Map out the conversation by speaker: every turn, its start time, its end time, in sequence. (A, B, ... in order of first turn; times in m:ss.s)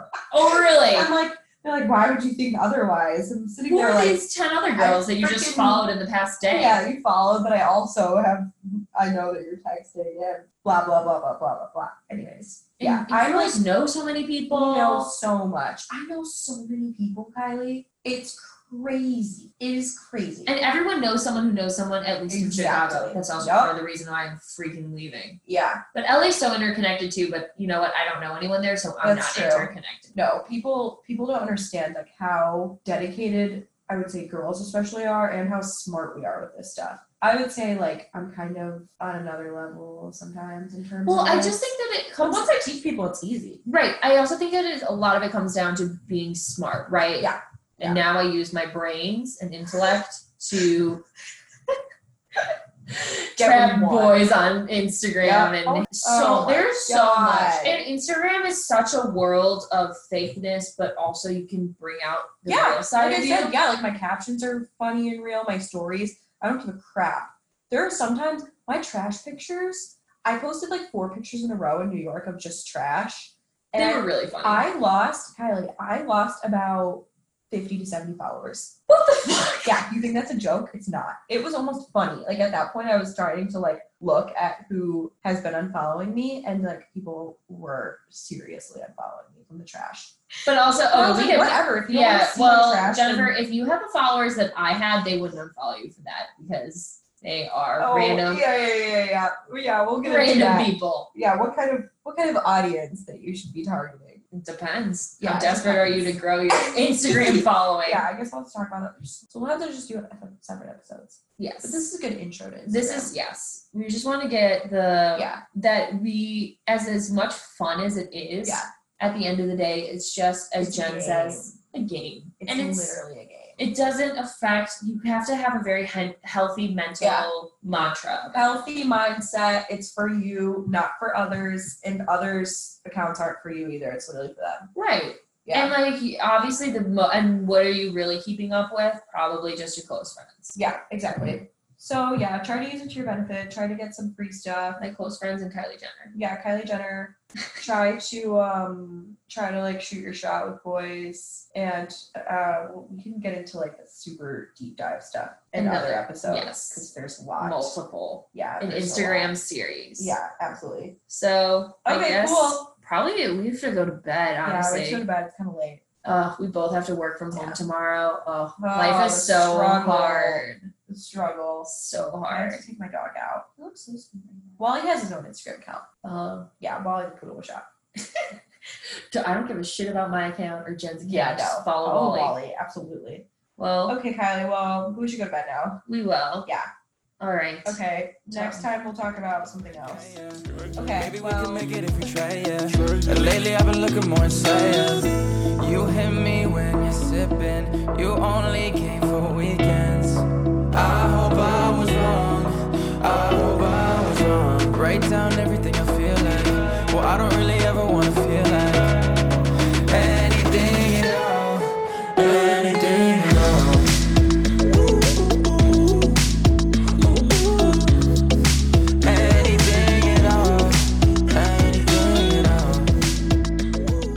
0:00.3-0:01.1 A
0:00.9-0:04.2 B
0:03.7-0:06.8 A
0:04.8-0:05.9 B
0:06.5-0:13.6 B
0:12.8-0:15.1 A
0:14.5-0:20.5 B
0:20.4-0:25.4 A
0:22.3-0:23.7 B
0:25.4-0:25.8 B
0:25.9-0:30.1 A
0:29.0-0:41.7 B
0:41.0-0:42.6 A
0:42.2-0:43.6 B
0:43.6-0:51.0 A
0:47.2-0:48.0 B
0:52.9-1:03.6 A
0:53.4-0:54.2 B
0:55.2-0:57.8 B
1:02.5-1:18.8 B
1:13.8-1:14.7 A
1:18.9-1:19.7 A
1:19.6-1:30.1 B
1:30.4-1:38.4 A
1:30.9-1:33.4 B
1:37.8-1:44.2 B
1:40.0-1:41.1 A
1:44.3-1:48.0 A
1:45.2-1:53.1 B
1:51.4-1:51.8 A
1:52.7-2:03.0 A
1:55.1-1:55.4 B
1:58.4-1:58.7 B
2:00.6-2:01.5 B
2:02.4-2:03.6 B
2:03.6-2:08.4 A
2:07.0-2:14.7 B
2:14.7-2:20.6 A
2:15.4-2:15.7 B
2:20.5-2:24.8 B
2:24.8-2:26.1 A
2:26.1-2:37.8 B
2:35.5-2:36.8 A
2:37.4-2:40.1 A
2:38.3-2:39.4 B
2:40.0-2:41.0 B
2:41.1-2:45.0 A
2:41.8-2:42.7 B
2:44.4-2:45.8 B
2:46.0-2:50.7 A
2:47.3-2:47.6 B
2:48.6-2:51.7 B
2:51.6-2:52.6 A
2:52.3-2:55.8 B
2:56.0-2:56.5 A
2:56.6-2:58.2 B
2:59.1-3:02.3 A
3:01.0-3:03.3 B
3:03.6-3:04.0 A
3:03.9-3:05.8 B
3:05.9-3:06.5 A
3:07.2-3:08.6 A
3:07.6-3:10.2 B
3:09.8-3:29.2 C
3:10.8-3:11.6 B
3:29.9-3:34.0 C
3:34.7-3:36.2 C
3:37.0-3:37.9 C
3:39.0-3:43.0 C